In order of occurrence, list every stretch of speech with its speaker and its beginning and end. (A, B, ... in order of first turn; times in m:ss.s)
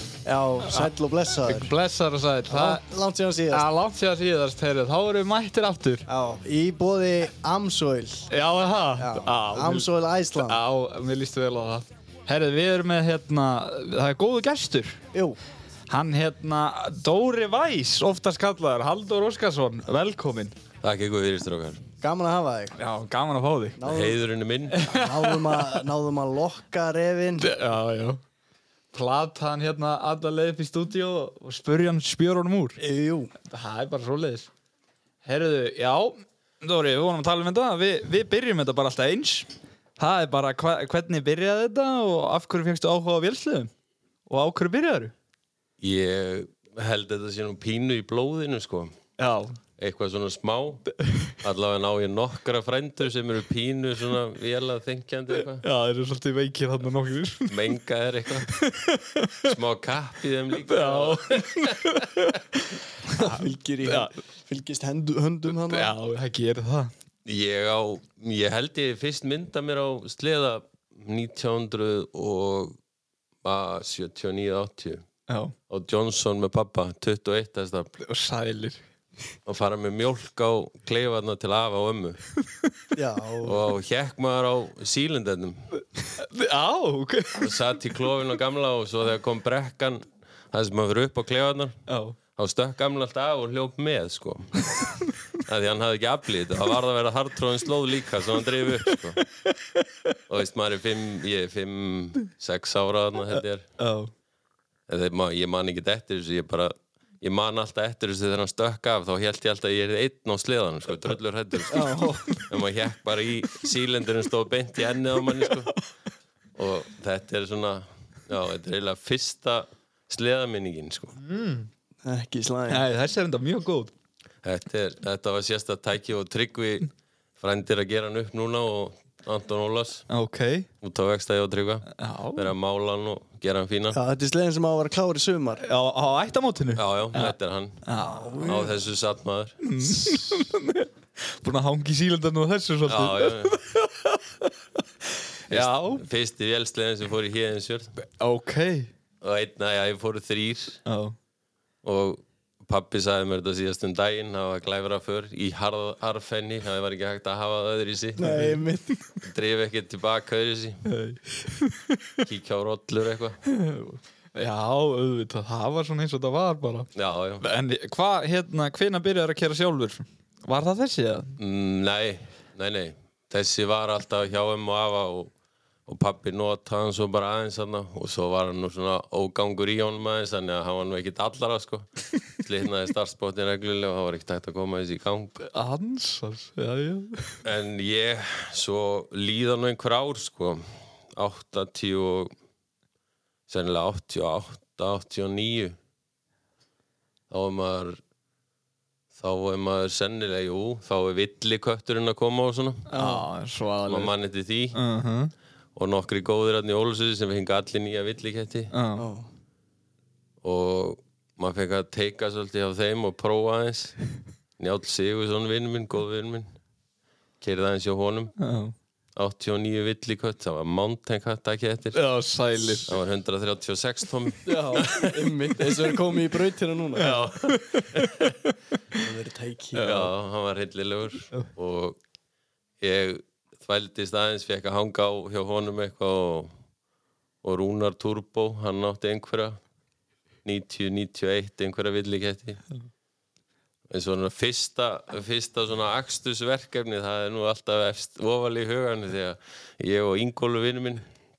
0:00.2-0:01.7 A
0:01.4-0:02.8 B
0:02.5-0:03.7 A
0:03.5-0:06.0 B
0:06.1-0:08.3 A
0:08.3-0:15.0 B
0:09.0-0:10.6 A
0:15.1-0:15.4 A
0:15.9-0:20.5 B
0:20.8-0:21.8 C
0:22.0-0:22.7 A
0:22.7-0:23.8 B
0:23.8-0:24.2 A
0:23.8-0:24.8 C
0:24.7-0:25.8 B
0:24.8-0:27.5 A
0:27.4-0:28.2 B
0:28.9-0:32.8 B
0:32.8-0:33.3 A
0:33.5-0:34.5 B
0:35.2-0:43.7 B
0:44.3-0:45.1 B
0:45.8-0:49.0 C
0:49.2-0:49.6 B
0:49.8-0:50.9 C
0:51.0-0:51.4 B
0:51.4-0:55.6 C
0:55.6-0:57.7 B
0:57.5-0:58.5 C
0:58.5-0:59.5 B
0:59.4-1:02.0 C
1:00.7-1:04.1 B
1:03.1-1:05.9 A
1:05.5-1:06.9 B
1:07.2-1:12.8 C
1:13.4-1:15.0 C
1:15.3-1:15.5 B
1:15.7-1:17.9 C
1:18.0-1:18.8 B
1:19.5-1:22.2 C
1:22.9-1:23.6 A
1:23.4-1:25.7 C
1:26.0-1:27.6 B
1:27.4-1:31.8 C
1:31.9-1:32.2 B
1:32.4-1:34.8 C
1:34.8-1:35.1 B
1:35.4-1:39.2 C
1:38.9-1:40.2 B
1:40.3-1:43.7 C
1:43.8-1:44.1 B
1:44.9-1:55.7 C
1:51.7-1:52.4 A
1:56.6-2:01.2 C
2:01.2-2:01.7 B
2:02.0-2:02.8 A
2:02.7-2:03.9 B
2:04.4-2:10.1 C
2:10.1-2:10.7 B
2:10.8-2:14.0 C
2:12.0-2:12.5 B
2:13.9-2:15.6 A
2:15.6-2:18.6 B
2:16.8-2:17.8 C
2:18.0-2:18.7 A
2:18.4-2:19.6 C
2:19.6-2:24.5 B
2:22.9-2:23.6 C
2:25.5-2:26.0 B
2:25.5-2:28.0 C
2:28.2-2:28.9 B
2:29.2-2:30.8 C
2:30.9-2:31.2 B
2:31.8-2:38.3 C
2:38.2-2:39.0 A
2:38.2-2:38.6 B
2:39.2-2:40.8 C
2:40.8-2:42.2 B
2:42.2-2:43.4 C
2:43.5-2:46.9 B
2:47.0-2:47.4 C
2:47.4-2:51.4 B
2:51.4-2:55.3 C
2:55.9-3:05.4 C
3:05.4-3:07.4 B
3:07.4-3:12.3 C
3:13.5-3:15.8 C
3:17.3-3:18.0 C
3:19.2-3:22.9 C
3:22.9-3:23.3 A
3:22.9-3:24.1 B
3:23.9-3:24.8 C
3:24.7-3:25.3 B
3:25.8-3:28.7 C
3:28.7-3:29.1 B
3:29.0-3:29.3 A
3:30.4-3:34.0 C
3:34.6-3:36.5 C
3:37.4-3:38.3 C
3:38.4-3:38.7 B
3:39.2-3:42.0 C
3:41.9-3:42.9 B
3:42.8-3:45.7 C
3:44.4-3:47.2 A
3:47.0-3:48.3 C
3:47.0-3:49.0 B
3:49.0-3:50.0 A
3:49.8-3:50.1 B
3:49.8-3:52.0 C
3:52.8-3:56.5 C
3:57.4-3:59.6 C
4:00.4-4:02.6 C
4:03.9-4:11.0 C